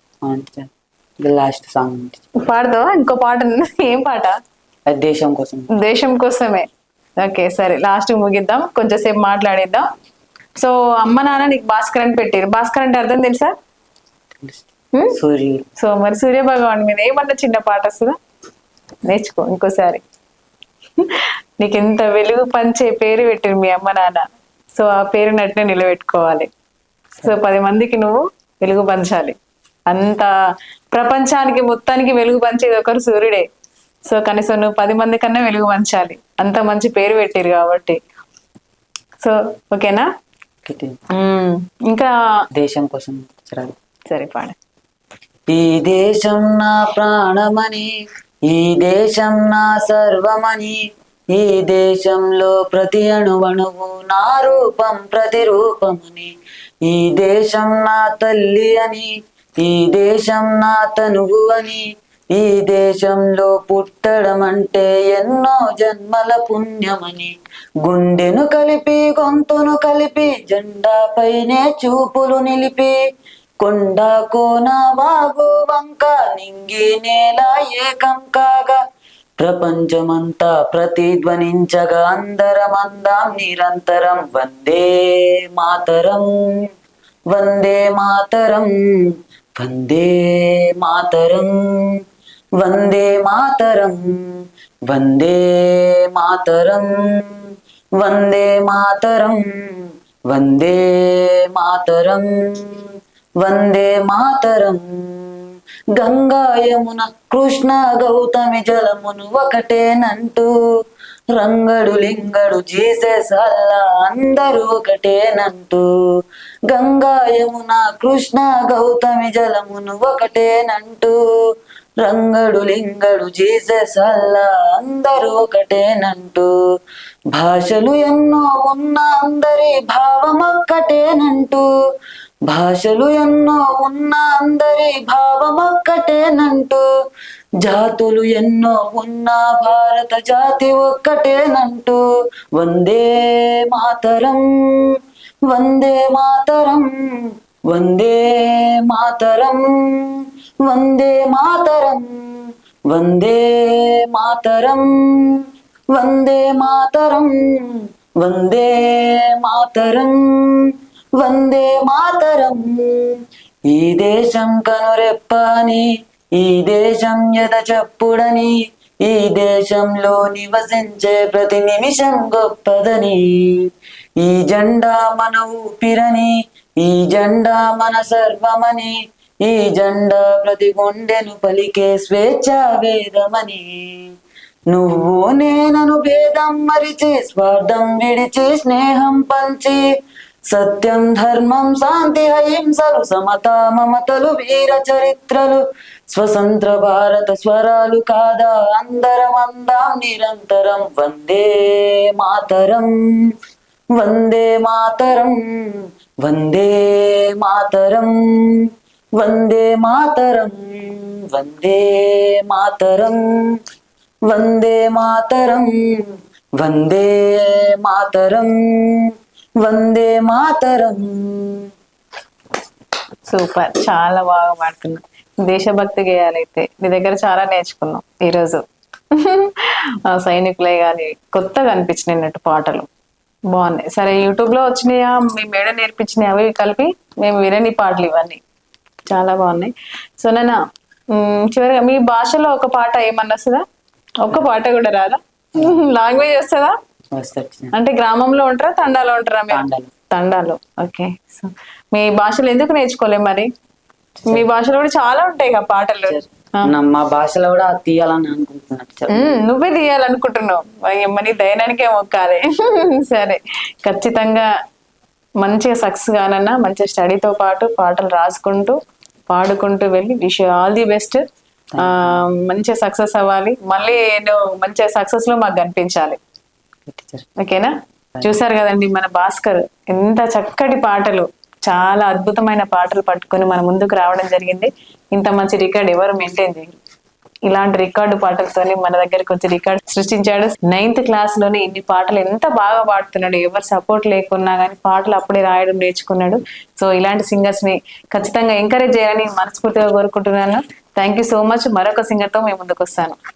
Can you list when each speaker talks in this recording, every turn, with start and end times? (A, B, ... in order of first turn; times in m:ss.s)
0:00.2-0:00.7 A
0:01.2-0:02.2 A
0:02.4-0:04.3 B
0:04.9-0:05.7 A
0:05.8-0:06.7 B
0:07.2-0:09.9 B
0:10.6-0:13.5 B
0:14.4-0:15.7 A
0:15.8-0:18.2 B
0:19.1-0:20.0 B
0:21.0-0:26.5 B
0:27.2-0:29.4 B
0:29.9-0:30.3 B
0:30.9-0:33.5 B
0:34.1-0:38.0 B
0:39.2-0:40.1 B
0:40.6-0:41.0 A
0:41.2-0:42.1 B
0:42.6-0:43.8 A
0:44.1-0:44.6 B
0:45.5-0:47.9 A
0:48.5-0:50.8 A
0:51.3-0:56.3 A
0:56.8-1:07.3 A
1:07.8-1:13.0 A
1:13.6-1:18.8 A
1:19.4-1:26.3 A
1:27.3-1:28.7 A
1:29.6-1:31.9 A
1:32.6-1:37.5 A
1:38.0-1:45.4 A
1:46.0-1:50.5 A
1:51.3-1:55.9 A
1:56.7-2:01.2 A
2:02.0-2:06.5 A
2:07.3-2:11.6 A
2:12.5-2:16.8 A
2:17.6-2:22.0 A
2:22.6-2:25.0 A
2:25.5-2:26.9 A
2:27.7-2:35.4 A
2:35.9-2:43.2 A
2:43.7-2:53.7 A
2:54.2-3:04.1 A
3:04.7-3:09.8 A
3:10.5-3:23.0 A
3:24.0-3:33.3 A
3:34.3-3:35.7 A
3:36.6-3:39.1 A
3:39.6-3:41.7 A
3:43.3-3:52.9 B
3:53.5-3:58.4 B
3:59.1-4:00.6 B
4:01.1-4:03.6 B
4:04.2-4:06.8 B
4:07.2-4:07.7 A
4:07.7-4:13.5 B
4:09.5-4:09.9 A
4:14.3-4:16.2 B
4:16.1-4:19.4 A
4:19.1-4:24.5 B
4:25.4-4:28.8 B
4:29.3-4:31.2 B
4:31.7-4:32.2 A
4:31.8-4:36.2 B
4:36.9-4:37.3 A
4:37.4-4:46.8 B
4:47.5-5:03.2 B